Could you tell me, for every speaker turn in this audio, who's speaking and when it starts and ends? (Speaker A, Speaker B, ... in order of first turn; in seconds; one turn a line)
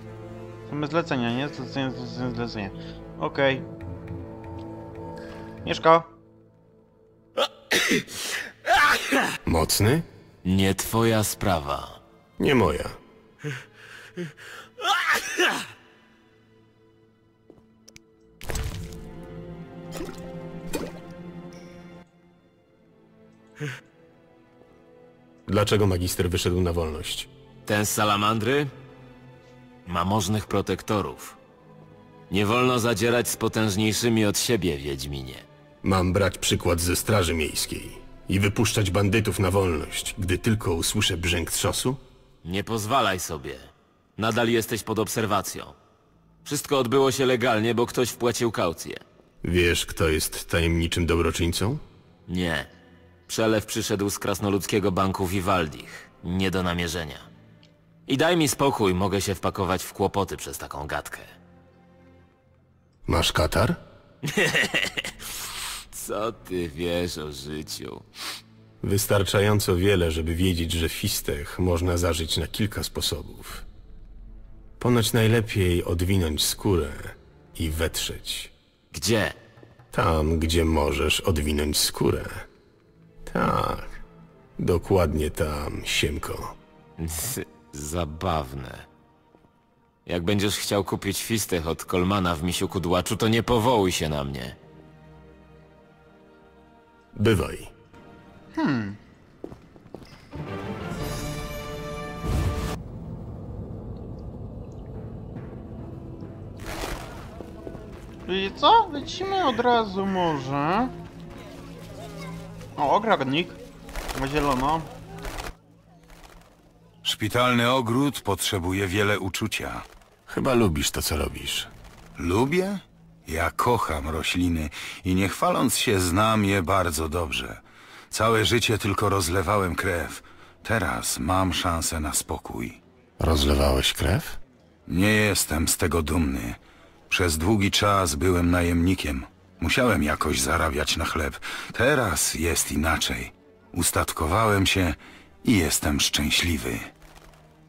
Speaker A: 0.7-3.7
Speaker A: 5.7-6.1
Speaker B: 9.5-10.1
Speaker C: 10.4-12.0
Speaker B: 12.4-13.0
Speaker B: 25.5-27.3
Speaker C: 27.7-28.7
Speaker C: 29.9-31.4
Speaker C: 32.3-35.5
Speaker B: 35.8-42.0
Speaker C: 42.4-45.8
Speaker C: 46.5-49.0
Speaker B: 49.4-51.8
Speaker C: 52.3-52.7
Speaker C: 53.3-57.3
Speaker C: 58.1-61.3
Speaker B: 63.1-63.8
Speaker C: 64.2-65.1
Speaker C: 65.9-68.1
Speaker B: 68.8-73.7
Speaker B: 74.8-78.5
Speaker C: 78.9-79.4
Speaker B: 79.9-82.5
Speaker B: 83.2-84.0
Speaker B: 84.6-86.6
Speaker C: 87.0-88.9
Speaker C: 90.1-94.6
Speaker B: 97.2-97.7
Speaker A: 98.5-99.0
Speaker A: 108.3-110.9
Speaker A: 112.8-113.6
Speaker A: 114.1-114.9
Speaker D: 117.0-119.8
Speaker B: 120.3-121.7
Speaker D: 122.2-132.8
Speaker B: 133.2-134.4
Speaker D: 134.9-136.6
Speaker D: 137.1-146.9